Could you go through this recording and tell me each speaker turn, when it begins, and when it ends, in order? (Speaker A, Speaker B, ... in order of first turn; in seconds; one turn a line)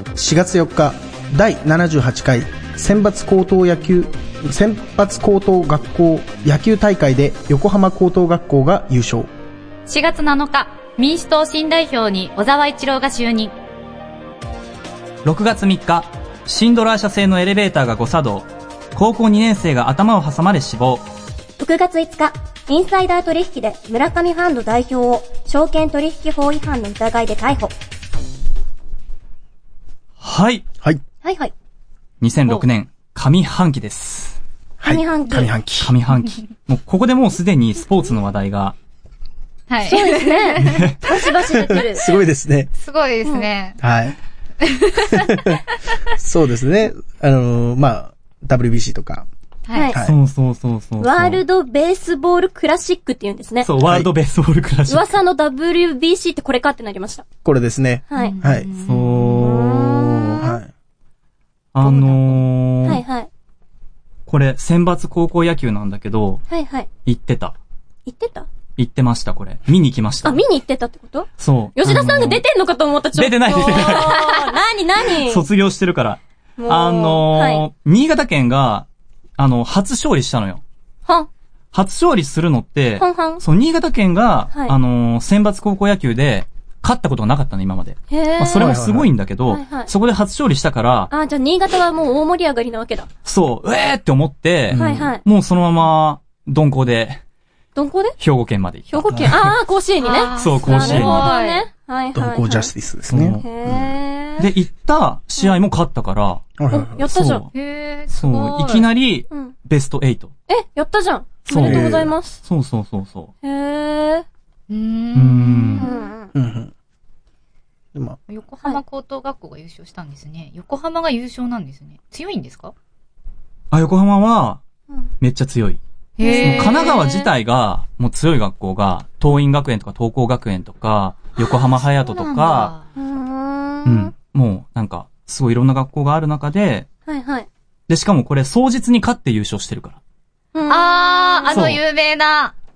Speaker A: 0.2-9.3
Speaker B: 9.9-13.5
Speaker C: 15.2-21.1
Speaker D: 21.6-27.7
Speaker C: 30.2-30.6
Speaker D: 31.2-31.5
Speaker C: 32.2-34.4
Speaker A: 34.8-36.0
Speaker D: 34.9-35.5
Speaker C: 35.8-38.8
Speaker B: 39.7-40.7
Speaker D: 39.9-42.1
Speaker C: 40.6-40.9
Speaker A: 41.5-42.7
Speaker B: 42.8-43.8
Speaker A: 43.8-44.2
Speaker B: 44.6-45.4
Speaker A: 45.3-45.6
Speaker A: 46.2-49.3
Speaker B: 49.7-49.9
Speaker D: 49.8-50.0
Speaker C: 50.0-51.4
Speaker D: 51.0-53.7
Speaker C: 53.6-55.1
Speaker A: 53.8-54.1
Speaker D: 54.9-57.3
Speaker A: 57.5-58.7
Speaker D: 58.1-58.4
Speaker B: 58.2-59.1
Speaker C: 58.8-60.0
Speaker D: 59.2-60.6
Speaker A: 59.9-60.7
Speaker C: 61.8-63.0
Speaker B: 61.8-62.4
Speaker D: 62.9-63.3
Speaker C: 64.3-66.4
Speaker D: 66.5-66.9
Speaker C: 67.0-67.5
Speaker D: 68.1-68.5
Speaker C: 68.8-70.4
Speaker D: 70.2-75.5
Speaker C: 71.4-72.4
Speaker C: 73.1-74.3
Speaker C: 75.2-78.9
Speaker D: 76.6-77.7
Speaker C: 79.4-80.6
Speaker C: 81.7-91.1
Speaker D: 83.0-83.4
Speaker D: 88.1-88.8
Speaker A: 88.5-89.1
Speaker D: 89.5-89.9
Speaker D: 91.1-93.1
Speaker C: 93.2-97.2
Speaker A: 94.7-95.1
Speaker D: 94.8-95.2
Speaker D: 97.8-98.2
Speaker C: 98.2-99.6
Speaker D: 98.9-102.7
Speaker A: 99.1-99.4
Speaker B: 100.0-101.6
Speaker C: 100.3-101.3
Speaker A: 102.1-103.9
Speaker C: 103.1-103.4
Speaker D: 103.4-104.5
Speaker C: 104.4-106.5
Speaker A: 106.6-107.0
Speaker D: 106.7-107.5
Speaker C: 107.0-107.5
Speaker B: 107.5-108.9
Speaker C: 108.1-110.3
Speaker D: 110.5-112.4
Speaker C: 111.5-113.3
Speaker A: 111.6-112.1
Speaker D: 113.4-114.3
Speaker B: 114.7-115.9
Speaker C: 115.2-115.9
Speaker D: 115.8-116.3
Speaker A: 116.3-116.7
Speaker A: 117.9-118.2
Speaker B: 118.3-122.7
Speaker C: 123.7-124.6
Speaker C: 125.2-125.8
Speaker B: 126.2-127.0
Speaker D: 126.2-127.3
Speaker C: 126.4-132.7
Speaker B: 132.1-132.8
Speaker D: 132.9-134.1
Speaker C: 133.9-136.9
Speaker D: 137.1-137.5
Speaker C: 137.9-140.0
Speaker D: 140.5-141.5
Speaker B: 140.7-142.5
Speaker C: 141.5-141.8